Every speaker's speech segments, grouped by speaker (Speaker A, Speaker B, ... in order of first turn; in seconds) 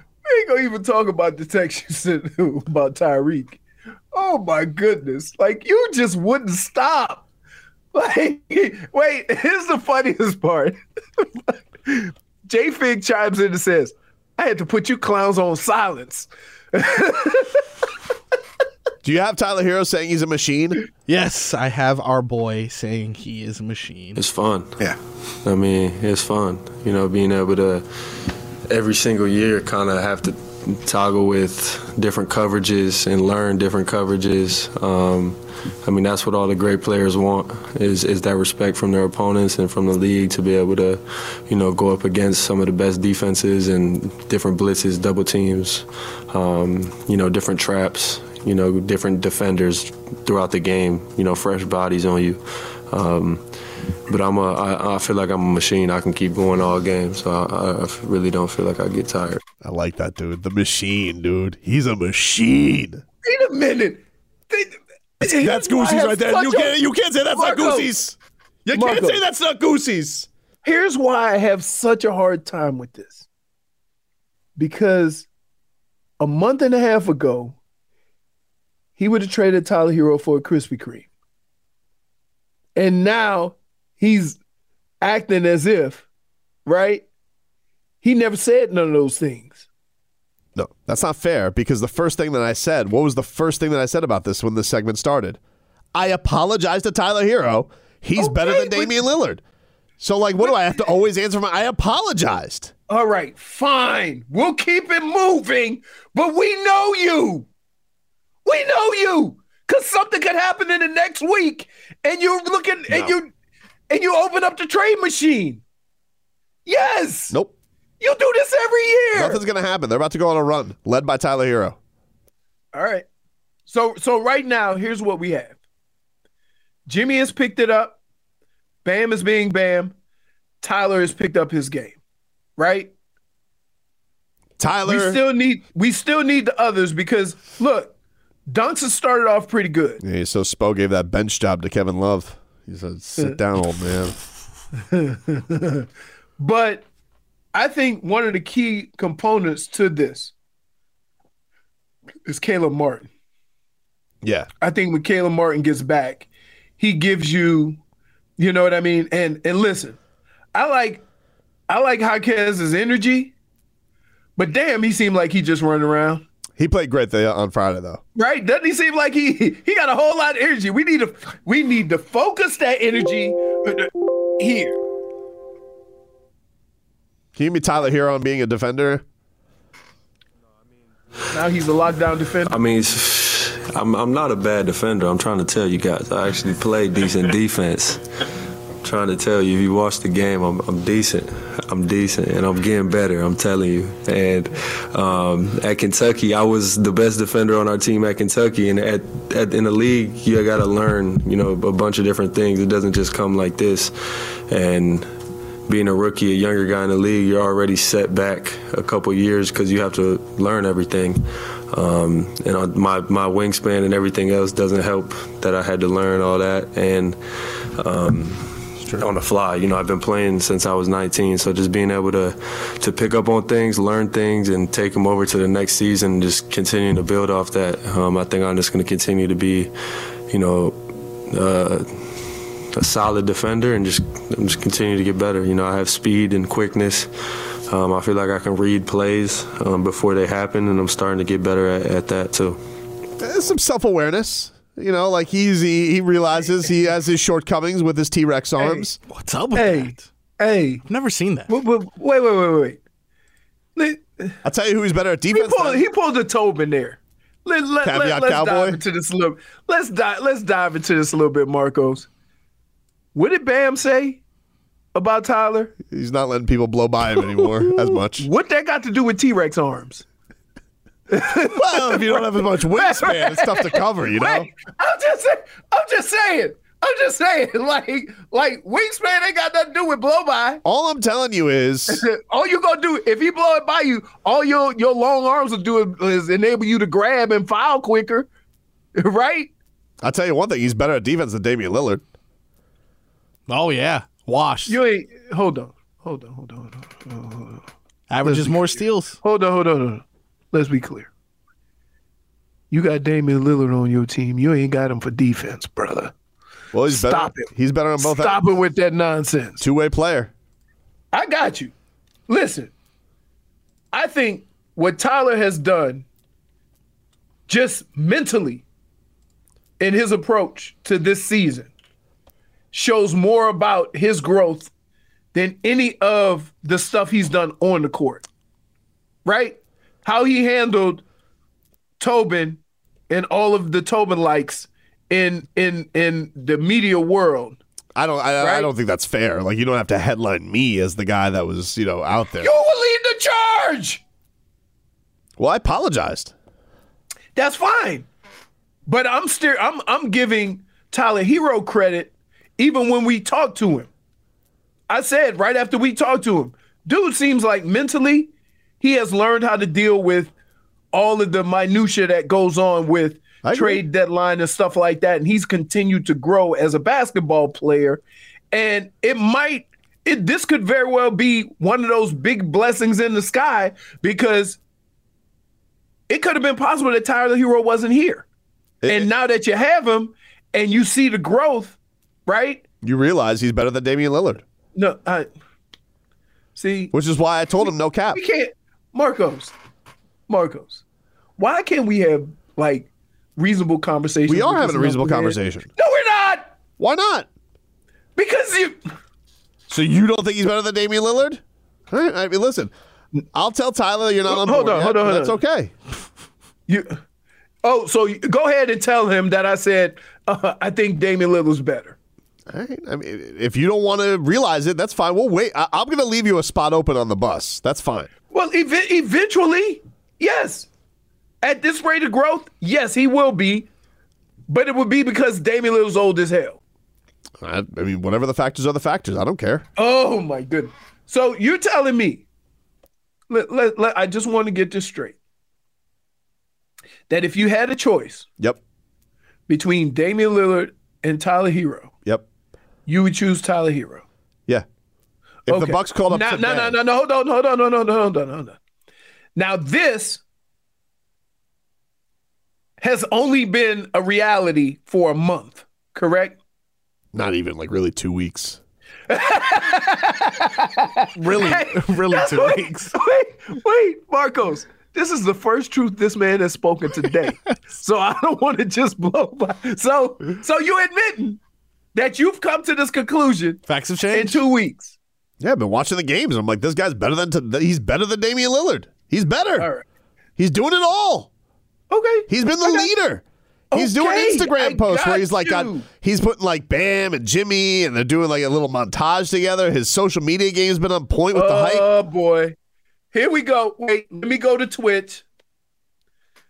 Speaker A: 0.2-3.6, 4.1-7.2, 7.9-17.6, 63.2-66.8, 67.3-67.9, 68.7-69.2, 70.6-73.2, 74.6-75.3, 76.2-77.6, 79.0-81.1, 82.8-84.4, 85.0-86.1, 86.7-87.0, 88.0-89.7, 98.2-99.0, 102.9-107.5, 108.5-113.3, 113.9-115.6, 116.7-117.4, 118.0-119.4, 122.7-123.1, 123.7-125.6, 126.9-128.0, 128.8-129.9, 130.6-132.0, 132.6-132.9, 134.9-137.9, 138.5-140.0, 144.8-145.9, 146.4-146.9, 147.5-150.3, 152.2-153.1, 154.6-156.3, 156.8-157.8, 158.4-160.0, 160.5-161.0, 161.7-163.3, 164.4-166.2, 168.2-174.8, 181.3-182.5, 248.6-248.8, 249.5-250.8, 251.5-252.8, 253.8-254.4, 255.3-262.1, 263.1-264.2, 264.9-265.8, 268.2-270.0, 271.1-280.6, 281.9-288.3, 289.0-289.5, 294.7-297.6, 298.2-301.1, 302.7-306.1, 306.9-309.6, 311.1-311.7, 312.3-312.7, 313.9-316.0, 317.5-318.6, 319.8-321.7, 322.7-324.7, 325.3-328.2, 329.2-331.0, 332.0-337.6, 338.4-338.7, 342.4-344.0, 347.4-348.1, 348.9-353.9, 354.9-360.3, 360.9-374.6, 376.1-378.2, 378.9-382.6, 384.8-385.3, 386.6-386.9, 388.1-389.5, 390.3-390.8, 391.4-396.6, 398.2-398.9, 404.3-405.4, 406.7-407.0, 407.6-412.0, 418.3-420.7, 421.4-423.7, 424.5-426.6, 429.8-432.2, 433.3-435.2, 437.1-438.3, 439.5-441.9, 442.9-444.0, 445.5-448.6, 449.4-450.2, 452.8-456.4, 459.1-471.4, 471.9-473.6, 474.1-474.9, 479.6-479.8, 481.9-482.9, 483.7-485.9, 491.3-492.5, 493.1-495.2
Speaker B: 19.0-20.8, 59.6-63.0, 65.2-70.3, 90.5-95.4, 95.9-99.4, 100.0-102.7, 112.9-113.2, 119.1-121.8, 134.6-135.2, 140.0-144.2, 154.2-154.5, 166.6-168.0, 177.3-179.0, 243.2-249.0, 254.4-255.8, 257.8-258.8, 265.9-268.3, 271.5-274.5, 280.6-282.0, 290.0-292.0, 306.7-308.4, 309.6-310.3, 337.9-342.6, 345.4-346.3, 363.4-363.8, 378.8-379.1, 382.8-384.4, 386.9-388.2, 394.3-395.7, 396.8-397.3, 399.7-402.7, 403.3-405.7, 412.5-418.1, 427.4-429.6, 445.5-446.8, 457.1-458.6, 475.4-479.7, 480.4-481.3, 482.3-491.9
Speaker C: 21.1-24.2, 249.1-250.1, 250.8-251.5, 293.5-294.8, 298.1-299.2, 461.2-462.9, 473.7-474.4
Speaker D: 24.2-24.8, 25.4-53.4, 54.1-59.4, 182.5-188.1, 188.8-203.9, 204.5-205.1, 205.7-217.2, 217.8-229.7, 230.3-237.1, 237.7-242.6